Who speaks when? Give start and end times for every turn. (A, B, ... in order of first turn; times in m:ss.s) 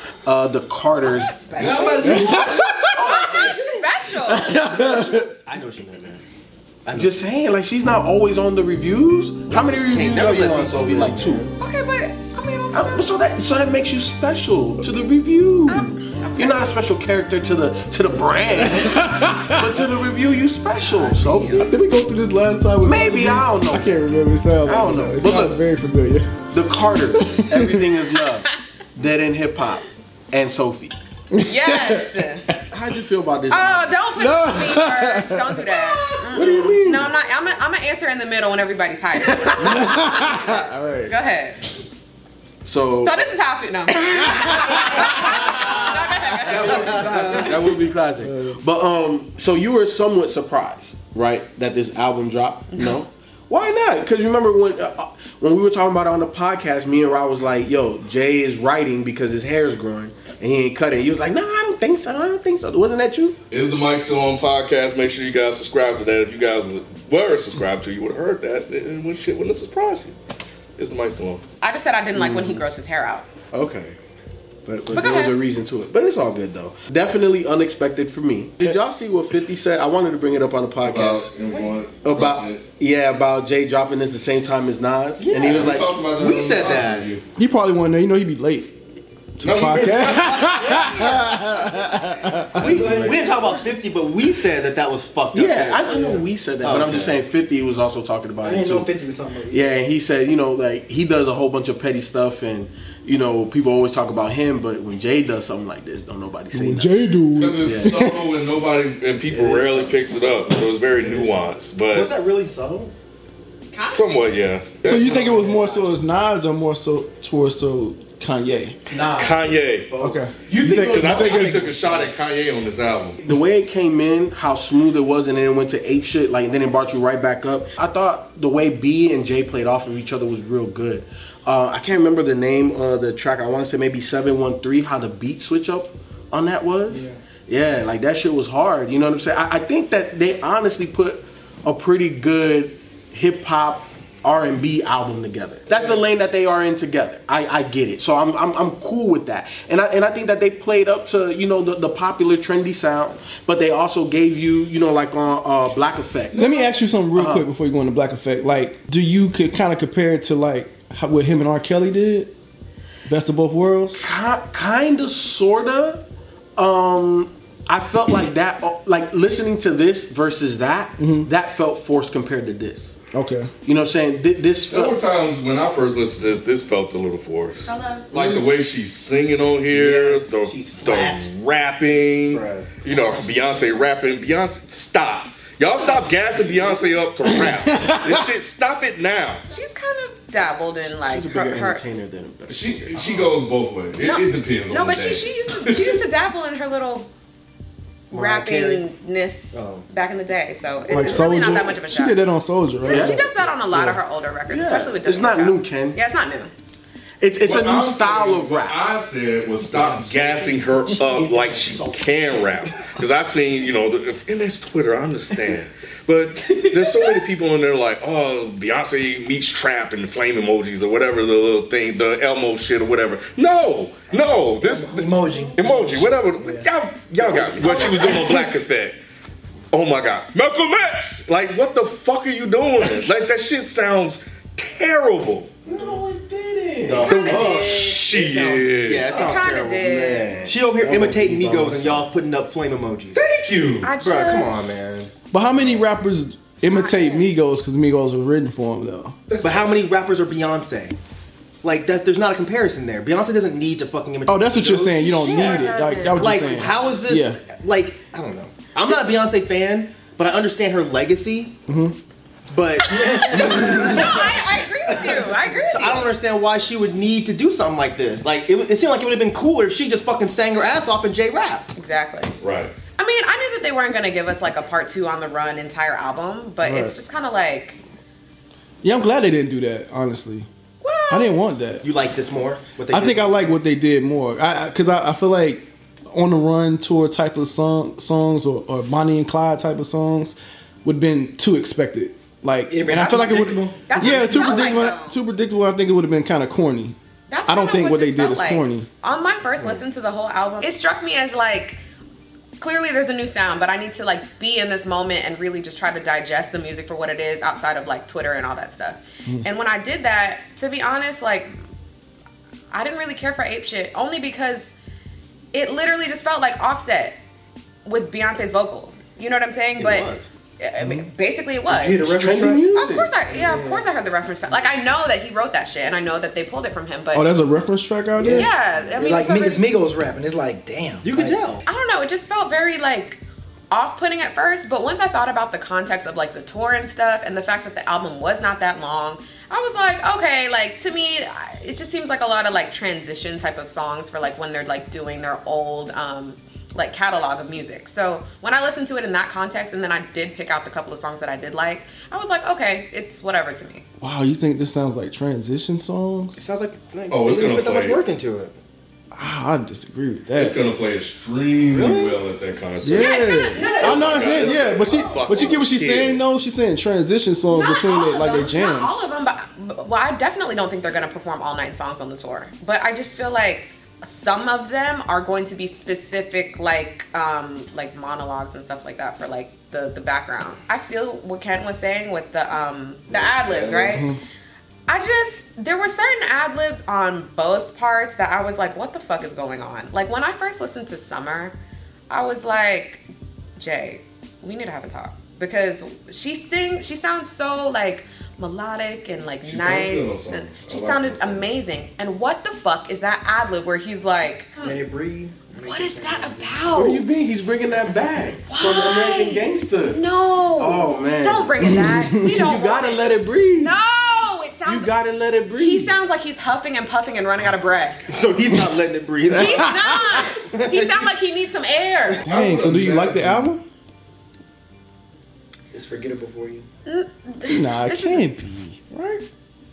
0:00.2-0:03.9 A
0:01.1-0:02.2 B
0:01.6-0:02.5 C
0:02.0-0:03.1 D
0:03.0-0:04.6 B
0:04.3-0:05.3 D
0:04.8-0:06.2 E
0:06.9-0:07.1 E
0:06.9-0:11.5 A
0:09.5-0:11.5 E
0:11.6-0:13.1 B
0:12.7-0:21.7 A
0:15.7-0:16.7 B
0:18.6-0:19.8 D
0:20.9-0:21.7 B
0:21.5-0:26.3 D
0:22.8-0:23.9 A
0:24.7-0:25.6 A
0:26.5-0:31.0 A
0:27.2-0:27.8 D
0:31.3-0:32.6 D
0:31.4-0:32.5 B
0:32.7-0:33.9 A
0:33.5-0:41.6 B
0:34.2-0:35.7 D
0:36.3-0:37.1 A
0:39.4-0:41.1 D
0:42.6-0:43.3 A
0:43.0-0:47.0 B
0:44.1-0:45.8 D
0:45.1-1:03.4 A
0:46.6-0:47.5 E
0:48.2-0:48.6 D
1:03.5-1:10.2 F
1:10.8-1:11.4 F
1:11.6-1:13.3 B
1:12.1-1:12.6 A
1:13.5-1:14.0 A
1:14.7-1:21.3 A
1:14.9-1:15.4 B
1:20.8-1:22.6 F
1:22.0-1:25.9 A
1:25.2-1:27.1 E
1:25.4-1:27.2 F
1:27.4-1:28.7 D
1:29.4-1:33.0 D
1:29.4-1:31.0 F
1:32.6-1:37.2 E
1:32.6-1:33.6 C
1:35.3-1:38.9 A
1:38.4-1:39.8 C
1:39.5-1:48.0 A
1:46.5-1:48.3 D
1:47.4-1:52.1 F
1:49.3-1:51.5 A
1:51.9-1:52.9 E
1:53.7-1:54.1 B
1:53.8-1:55.4 F
1:54.8-1:58.8 D
1:54.9-1:55.8 E
1:54.9-1:55.4 A
1:58.9-2:02.2 E
1:59.0-1:59.5 A
1:59.1-1:59.9 F
2:00.0-2:01.7 D
2:00.6-2:03.2 F
2:03.2-2:36.5 A
2:16.9-2:17.2 C
2:25.7-2:26.0 C
2:36.3-2:36.7 F
2:36.3-2:42.3 D
2:37.1-2:37.5 A
2:43.1-2:44.0 D
2:44.0-2:46.0 A
2:46.6-2:53.0 A
2:51.0-2:51.3 D
2:53.1-2:53.5 D
2:53.6-2:55.0 A
2:54.7-3:09.5 F
2:57.6-2:58.1 B
2:59.7-3:01.3 E
3:02.3-3:02.7 A
3:02.9-3:03.2 E
3:07.3-3:08.3 D
3:09.5-3:11.8 B
3:10.9-3:13.3 A
3:12.5-3:16.0 F
3:14.0-3:17.1 B
3:18.1-3:18.8 E
3:18.1-3:22.2 B
3:19.5-3:19.8 E
3:20.9-3:23.3 D
3:22.8-3:23.2 A
3:22.8-3:26.5 B
3:23.7-3:26.0 A
3:27.2-3:28.8 A
3:27.4-3:49.0 F
3:29.7-3:32.1 E
3:36.4-3:37.2 B
3:44.6-3:46.7 C
3:47.2-3:48.2 A
3:47.3-3:48.2 E
3:49.7-3:55.6 F
3:55.6-3:57.5 A
3:56.9-4:03.3 E
3:57.0-3:58.0 B
3:57.1-3:59.2 F
3:59.1-4:00.3 B
3:59.8-4:02.1 A
4:03.2-4:03.9 F
4:03.8-4:04.7 B
4:04.0-4:05.8 E
4:05.3-4:09.2 D
4:06.6-4:07.3 B
4:09.3-4:09.8 C
4:09.4-4:11.0 E
4:11.6-4:21.5 E
4:14.3-4:17.4 D
4:15.2-4:16.8 B
4:21.7-4:21.9 D
4:22.5-4:31.7 E
4:22.8-4:26.1 B
4:22.8-4:24.2 C
4:31.8-4:32.4 B
4:32.4-4:32.7 F
4:33.0-4:37.8 B
4:36.6-4:36.9 D
4:38.8-4:40.5 D
4:40.8-4:41.3 B
4:41.1-4:41.8 D
4:41.8-4:43.6 E
4:42.9-4:58.9 D
4:52.7-4:54.5 C
4:53.9-4:55.2 B
4:57.3-5:01.8 B
5:02.6-5:11.5 B
5:12.7-5:14.7 B
5:15.5-5:17.2 B
5:17.8-5:22.2 B
5:19.8-5:20.2 E
5:20.8-5:21.1 D
5:21.7-5:22.7 C
5:22.1-5:23.1 A
5:22.7-5:27.3 B
5:23.3-5:23.9 C
5:27.1-5:28.5 D
5:28.2-5:31.4 C
5:28.3-5:29.7 B
5:28.6-5:29.1 E
5:31.0-5:31.6 E
5:31.6-5:53.8 B
5:54.0-5:56.4 D
5:56.3-5:58.6 E
5:57.1-5:58.0 F
5:59.1-6:00.7 D
6:00.4-6:06.2 F
6:01.6-6:02.2 E
6:02.8-6:09.1 D
6:03.0-6:04.6 B
6:03.6-6:05.6 E
6:07.5-6:24.1 B
6:23.4-6:24.0 F
6:24.9-6:31.5 B
6:32.1-6:33.0 B
6:33.6-6:44.8 B
6:39.4-6:41.5 F
6:44.6-6:46.7 C
6:45.6-6:47.1 B
6:46.7-6:50.0 A
6:48.5-6:55.0 B
6:50.6-6:53.8 A
6:51.6-6:52.5 D
6:54.6-6:55.9 A
6:55.6-6:58.1 B
6:58.1-6:59.8 E
6:59.3-7:00.3 D
6:59.3-7:02.3 B
7:00.4-7:01.1 E
7:02.1-7:02.6 E
7:02.2-7:03.6 D
7:02.3-7:03.2 C
7:02.4-7:03.3 A
7:05.7-7:06.7 C
7:06.8-7:08.2 B
7:07.5-7:09.2 D